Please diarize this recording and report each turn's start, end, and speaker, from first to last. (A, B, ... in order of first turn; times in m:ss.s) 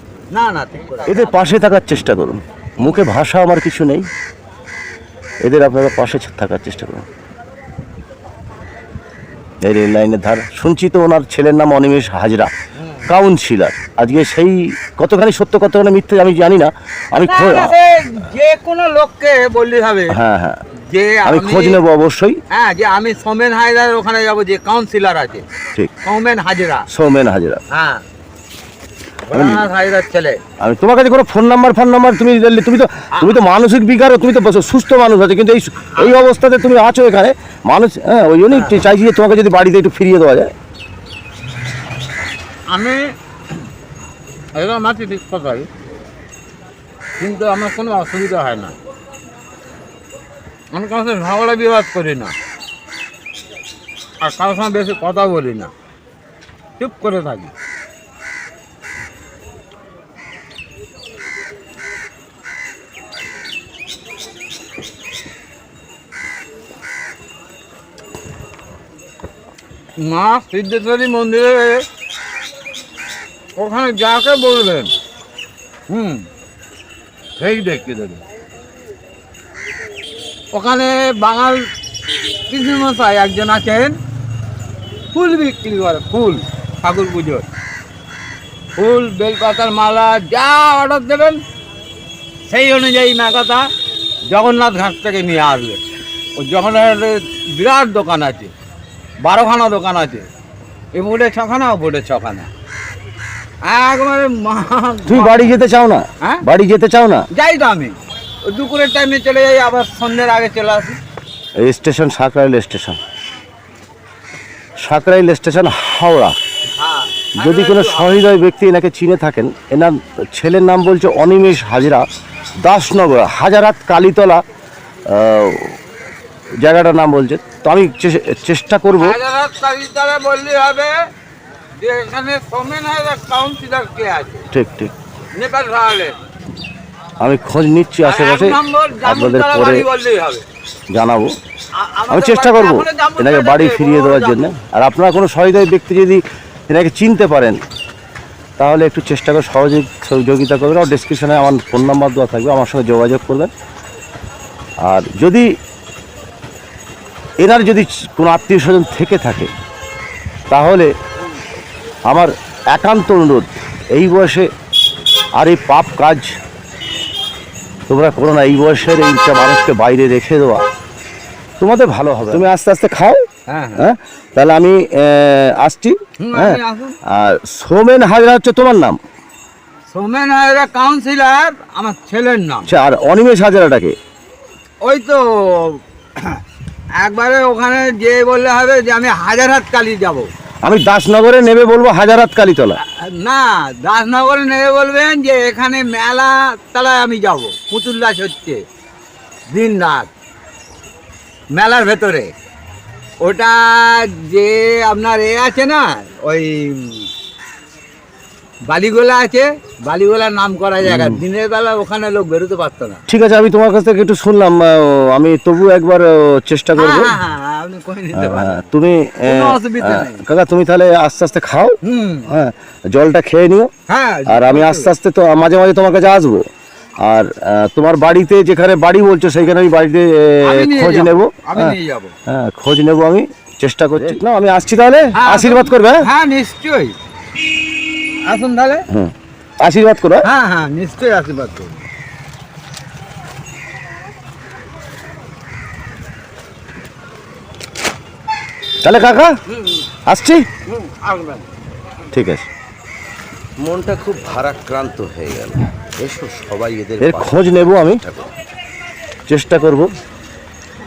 0:00.3-0:01.6 A
0:01.1-0:04.1 B
0:05.4-0:07.1 B
0:09.6-0:12.5 B
0:12.8-0:13.1 A
0:13.1-0:17.8 B
0:17.2-0:20.2 A
0:20.1-0:20.6 B
0:20.9-0:21.8 A
0:21.2-0:22.4 B
0:22.5-0:25.4 A
0:26.0-0:26.9 A
0:26.9-0:27.6 B
0:27.7-0:28.0 A
0:29.3-0:30.4 A
0:29.3-0:29.7 B
0:30.6-0:40.5 B
0:42.7-0:43.1 A
0:44.6-0:45.7 A
0:47.2-0:48.8 A
0:50.7-0:52.3 A
0:54.2-0:55.7 A
0:56.8-0:57.5 A
1:10.0-1:11.8 A
1:13.6-1:14.9 A
1:15.9-1:16.3 A
1:17.4-1:18.2 A
1:20.5-1:21.7 A
1:22.5-1:24.0 A
1:25.1-1:27.5 A
1:28.8-1:31.4 A
1:32.5-1:33.7 A
1:34.3-1:35.8 A
1:36.4-1:38.5 A
1:39.2-1:40.3 A
1:40.9-1:42.5 A
1:43.6-1:45.5 A
1:45.1-1:47.2 B
1:47.3-1:51.0 A
1:51.6-1:53.0 B
1:54.8-1:56.4 B
1:56.8-1:58.3 A
1:57.4-2:02.0 B
2:02.6-2:04.4 B
2:05.1-2:05.8 B
2:06.6-2:09.2 B
2:08.9-2:11.1 A
2:11.8-2:14.4 A
2:14.5-2:14.9 B
2:15.4-2:16.2 A
2:17.2-2:19.8 B
2:18.0-2:20.4 A
2:20.9-2:21.3 B
2:21.8-2:24.4 A
2:22.1-2:27.6 B
2:28.6-2:33.5 B
2:34.8-2:35.5 B
2:37.4-2:39.5 B
2:40.5-2:40.9 B
2:42.1-2:44.5 B
2:45.4-2:46.3 B
2:47.9-2:50.6 B
2:51.6-2:53.2 B
2:53.5-2:53.9 A
2:53.8-2:59.0 B
2:56.2-2:57.0 A
2:59.9-3:02.7 A
3:02.7-3:04.0 B
3:04.8-3:06.4 A
3:07.0-3:10.3 A
3:10.6-3:12.8 B
3:12.8-3:18.6 A
3:19.5-3:20.1 A
3:21.5-3:22.3 A
3:23.2-3:27.1 A
3:28.7-3:33.0 A
3:30.8-3:31.2 B
3:33.1-3:37.2 B
3:36.7-3:38.7 A
3:38.2-3:41.8 B
3:39.2-3:40.2 A
3:41.8-3:42.3 A
3:42.3-3:43.7 B
3:43.9-3:44.9 A
3:44.3-3:46.4 B
3:47.0-3:51.8 B
3:50.4-3:52.2 A
3:52.3-3:56.1 B
3:55.2-3:57.0 A
3:58.3-3:58.9 A
3:58.9-4:00.3 B
4:00.2-4:01.8 A
4:08.8-4:09.3 B
4:09.5-4:09.8 A
4:10.1-4:10.4 B
4:10.7-4:11.5 A
4:12.1-4:12.5 B
4:13.6-4:18.3 C
4:17.0-4:18.0 B
4:19.3-4:19.9 B